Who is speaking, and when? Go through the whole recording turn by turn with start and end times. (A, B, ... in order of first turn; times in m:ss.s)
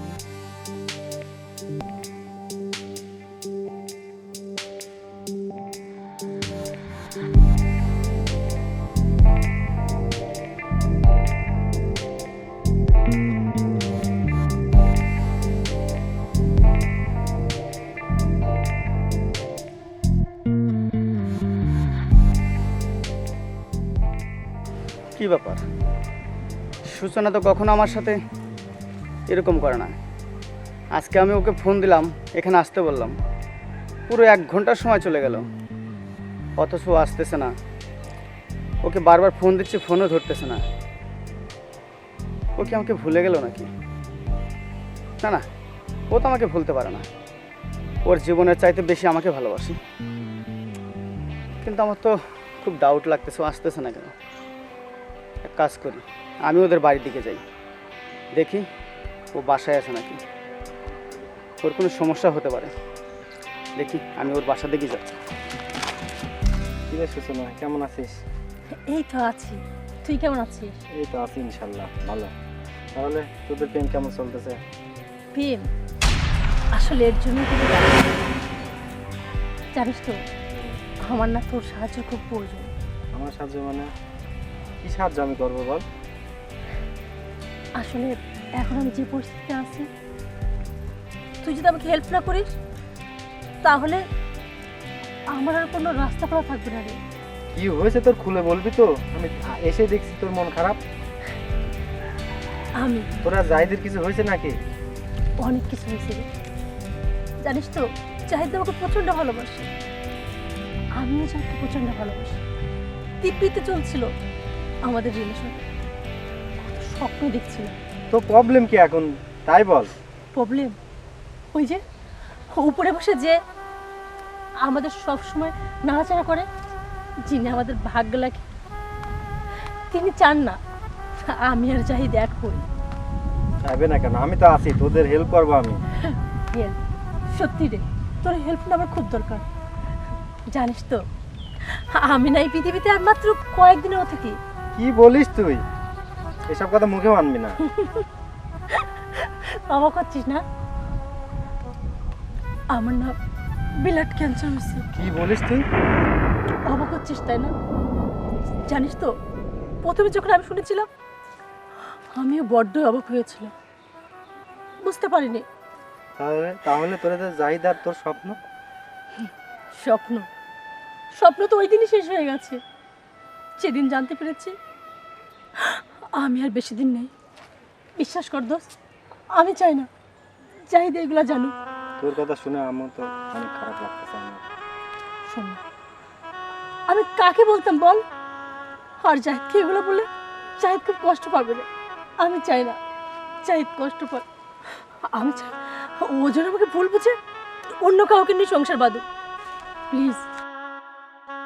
0:25.2-0:25.6 A
0:26.9-0:28.2 A
0:29.3-0:29.9 A
0:31.0-0:33.2 A
0:34.1-0:35.5 A
0:36.6-0:37.5 A
0:38.8-0:40.6 A
0:42.6-0:43.7 A
0:46.1-0:47.1 A
0:48.0-0:49.8 A
0:51.6-0:54.1 A
0:55.4-0:57.4 A
0:58.3-0:58.7 A
0:59.3-1:00.2 A
1:01.6-1:02.7 A
1:03.8-1:05.1 A
1:06.9-1:08.1 B
1:08.9-1:10.8 C
1:11.0-1:12.3 B
1:13.0-1:14.6 B
1:15.3-1:15.6 C
1:16.7-1:18.5 C
1:19.7-1:20.2 C
1:21.1-1:22.7 C
1:23.2-1:23.9 B
1:24.8-1:25.8 B
1:27.8-1:29.9 C
1:31.4-1:32.5 C
1:33.6-1:34.0 C
1:35.4-1:37.0 C
1:37.5-1:40.8 B
1:42.8-1:43.1 C
1:43.2-1:44.5 B
1:45.4-1:46.2 C
1:47.4-1:49.7 C
1:51.0-1:52.4 C
1:53.2-1:54.1 C
1:54.9-1:55.5 C
1:56.6-1:57.8 C
1:58.1-1:59.9 B
2:00.3-2:00.8 C
2:01.5-2:01.8 C
2:02.5-2:03.4 C
2:04.6-2:06.5 C
2:07.3-2:08.4 C
2:09.9-2:10.6 C
2:11.3-2:12.7 C
2:13.6-2:15.8 B
2:16.1-2:16.8 C
2:17.3-2:19.4 C
2:20.5-2:21.0 C
2:21.7-2:24.4 C
2:24.8-2:25.6 B
2:26.5-2:27.6 B
2:27.6-2:28.1 C
2:28.7-2:30.4 C
2:32.7-2:33.2 C
2:33.8-2:34.9 C
2:35.0-2:35.6 B
2:36.7-2:37.5 C
2:38.7-2:39.1 C
2:39.8-2:40.9 C
2:42.1-2:43.5 C
2:44.8-2:45.4 C
2:46.2-2:48.4 B
2:49.8-2:50.3 C
2:51.2-2:52.6 C
2:53.6-2:54.5 C
2:55.6-2:57.1 C
2:58.0-2:58.7 C
2:59.4-2:59.9 C
3:00.7-3:01.5 C
3:02.0-3:04.4 B
3:05.3-3:05.6 C
3:06.9-3:08.0 C
3:09.0-3:10.1 C
3:10.6-3:11.7 C
3:12.2-3:12.8 C
3:13.4-3:14.2 C
3:15.1-3:17.2 C
3:17.7-3:19.0 C
3:19.9-3:20.3 C